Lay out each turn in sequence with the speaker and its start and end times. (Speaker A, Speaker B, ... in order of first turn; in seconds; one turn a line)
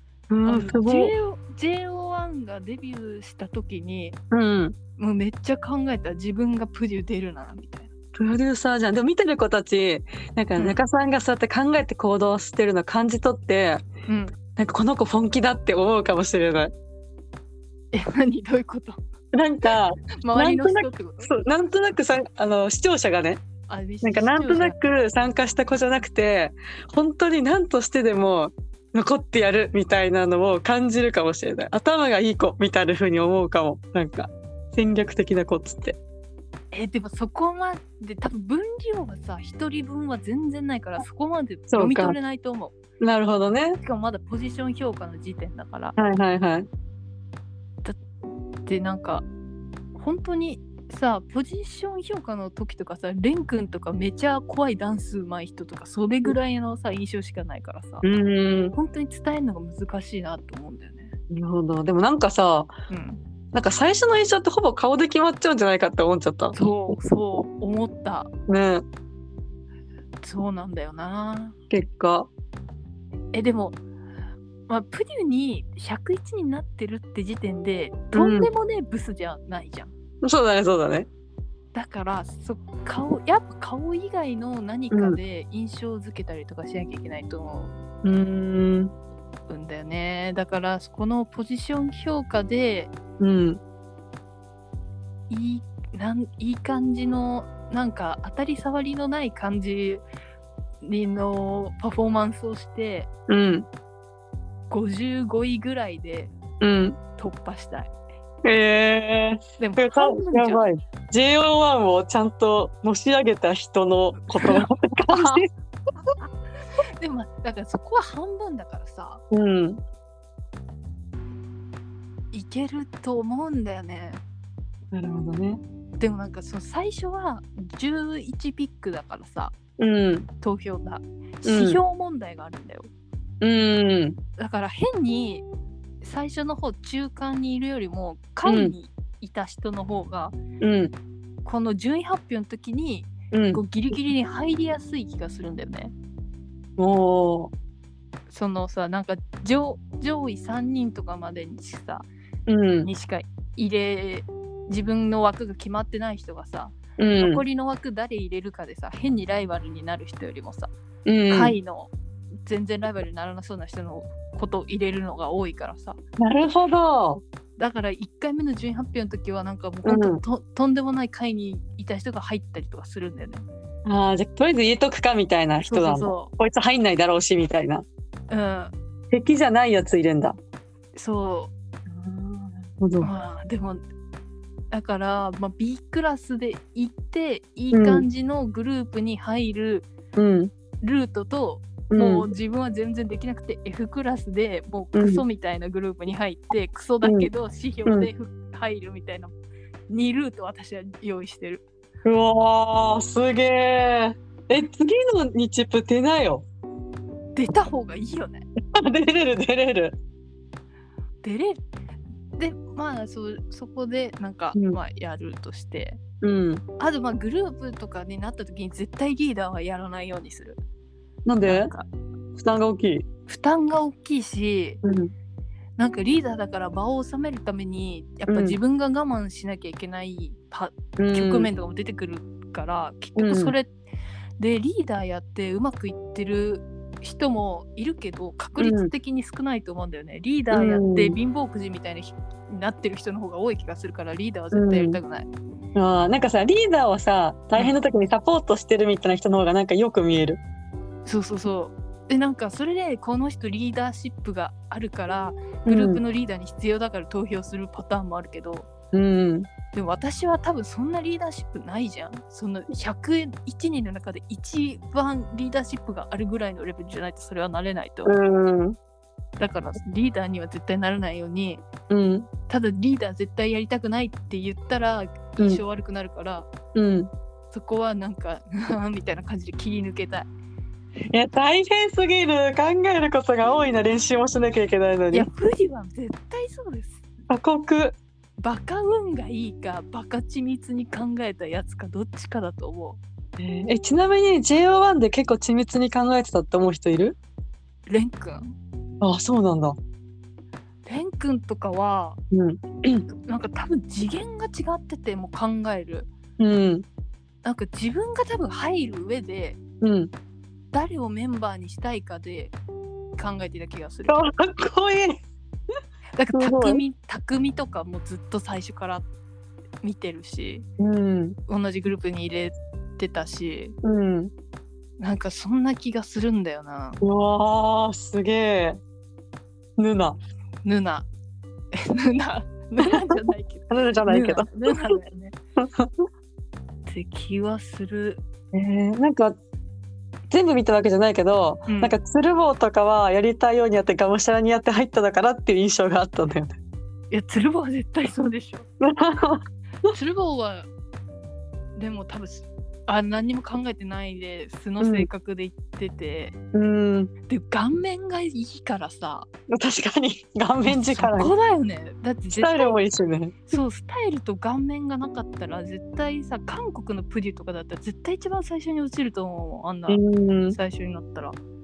Speaker A: 0.3-1.1
Speaker B: 0.5-4.2
Speaker A: 4.3-4.8
Speaker B: 5.0-7.9
Speaker A: 8.2-13.8
Speaker B: 14.1-14.4
Speaker A: 14.6-16.7
Speaker B: 17.9-19.0
Speaker A: 19.3-23.4
Speaker B: 20.2-21.3
Speaker B: 23.7-24.8
Speaker A: 24.0-36.0
Speaker B: 36.7-42.8
Speaker A: 41.7-42.2
Speaker A: 43.0-43.8
Speaker B: 43.8-46.0
Speaker A: 46.0-46.7
Speaker B: 48.7-49.3
Speaker B: 50.0-58.1
Speaker A: 58.0-58.8
Speaker B: 58.7-61.1
Speaker A: 61.3-62.7
Speaker B: 62.9-63.2
Speaker A: 63.5-66.6
Speaker B: 66.5-68.3
Speaker A: 68.5-68.8
Speaker B: 70.2-71.6
Speaker A: 71.7-72.3
Speaker B: 73.3-73.8
Speaker B: 74.7-79.9
Speaker A: 78.1-78.5
Speaker A: 80.2-81.1
Speaker B: 81.7-87.7
Speaker A: 84.9-85.2
Speaker A: 88.0-88.9
Speaker B: 89.5-92.9
Speaker A: 93.2-93.6
Speaker B: 95.3-100.0
Speaker B: 100.8-103.1
Speaker A: 103.3-103.7
Speaker B: 104.7-106.3
Speaker A: 106.6-107.0
Speaker B: 107.2-107.9
Speaker A: 108.4-115.5
Speaker B: 109.6-110.6
Speaker B: 114.4-115.5
Speaker B: 117.0-119.2
Speaker A: 119.3-119.8
Speaker B: 122.3-124.2
Speaker A: 124.9-125.6
Speaker B: 126.0-129.6
Speaker A: 129.8-130.3
Speaker B: 130.4-132.9
Speaker A: 131.4-131.8
Speaker A: 133.4-134.2
Speaker B: 134.4-135.4
Speaker B: 136.0-140.4
Speaker A: 138.5-138.8
Speaker A: 140.6-140.9
Speaker B: 141.4-145.9
Speaker A: 143.3-143.6
Speaker A: 146.8-147.5
Speaker B: 148.3-152.1
Speaker A: 152.5-152.9
Speaker B: 152.8-160.7
Speaker A: 157.0-157.4
Speaker A: 161.1-161.6
Speaker B: 161.3-161.9
Speaker B: 162.5-166.0
Speaker A: 166.2-167.2
Speaker B: 167.6-173.4
Speaker A: 169.8-170.2
Speaker A: 173.8-177.8
Speaker B: 175.7-176.3
Speaker B: 178.3-178.7
Speaker A: 179.1-180.4
Speaker B: 180.9-183.8
Speaker A: 182.8-183.1
Speaker B: 184.7-189.9
Speaker A: 187.7-188.1
Speaker A: 190.2-190.5
Speaker B: 190.8-199.3
Speaker A: 191.9-192.3
Speaker A: 194.9-195.2
Speaker A: 197.0-197.3
Speaker B: 199.9-201.6
Speaker A: 202.1-206.5
Speaker B: 207.4-208.4
Speaker A: 208.7-210.0
Speaker B: 211.2-211.6
Speaker B: 212.4-216.0
Speaker A: 216.2-216.6
Speaker B: 216.8-220.6
Speaker A: 221.3-221.7
Speaker B: 221.4-221.9
Speaker A: 222.3-223.1
Speaker B: 223.3-224.8
Speaker A: 224.8-225.1
Speaker B: 225.8-233.7
Speaker A: 228.3-228.6
Speaker A: 231.0-231.5
Speaker A: 233.2-233.6
Speaker B: 234.4-245.3
Speaker A: 238.6-238.9
Speaker A: 240.5-241.2
Speaker A: 244.5-245.0
Speaker A: 245.8-250.4
Speaker B: 247.6-247.8
Speaker B: 251.1-258.7
Speaker A: 255.7-256.0
Speaker A: 258.9-259.5
Speaker B: 259.7-268.1
Speaker A: 268.1-268.8
Speaker B: 269.4-271.6
Speaker A: 271.9-272.3
Speaker B: 272.5-276.5
Speaker A: 276.8-277.1
Speaker B: 277.5-280.3
Speaker A: 281.1-285.3
Speaker B: 285.1-287.0
Speaker A: 287.3-288.0
Speaker B: 288.4-293.0
Speaker A: 293.4-297.2
Speaker B: 297.9-298.5
Speaker A: 299.0-299.8
Speaker B: 300.9-302.2
Speaker A: 302.3-303.1
Speaker B: 303.2-306.1
Speaker A: 306.4-306.9
Speaker B: 307.4-309.6
Speaker A: 309.8-310.1
Speaker B: 310.7-312.6
Speaker B: 313.2-314.3
Speaker A: 314.1-315.2
Speaker B: 316.2-319.1
Speaker A: 316.3-316.8
Speaker B: 319.8-320.7
Speaker A: 320.8-321.4
Speaker B: 321.5-323.8
Speaker A: 323.8-324.3
Speaker B: 325.0-327.0
Speaker A: 327.0-328.8
Speaker A: 329.8-330.2
Speaker B: 330.6-331.1
Speaker B: 331.7-335.4
Speaker A: 333.7-334.7
Speaker A: 335.6-336.0
Speaker B: 336.9-338.2
Speaker A: 338.5-339.4
Speaker A: 340.3-346.6
Speaker B: 341.7-341.9
Speaker B: 347.1-348.7
Speaker A: 348.8-349.4
Speaker B: 349.9-350.7
Speaker B: 351.8-356.4
Speaker A: 354.8-355.1
Speaker A: 356.5-357.1
Speaker B: 357.3-359.3
Speaker A: 359.5-361.3
Speaker B: 360.7-362.8
Speaker A: 362.3-363.6
Speaker B: 363.5-371.4
Speaker A: 369.9-370.6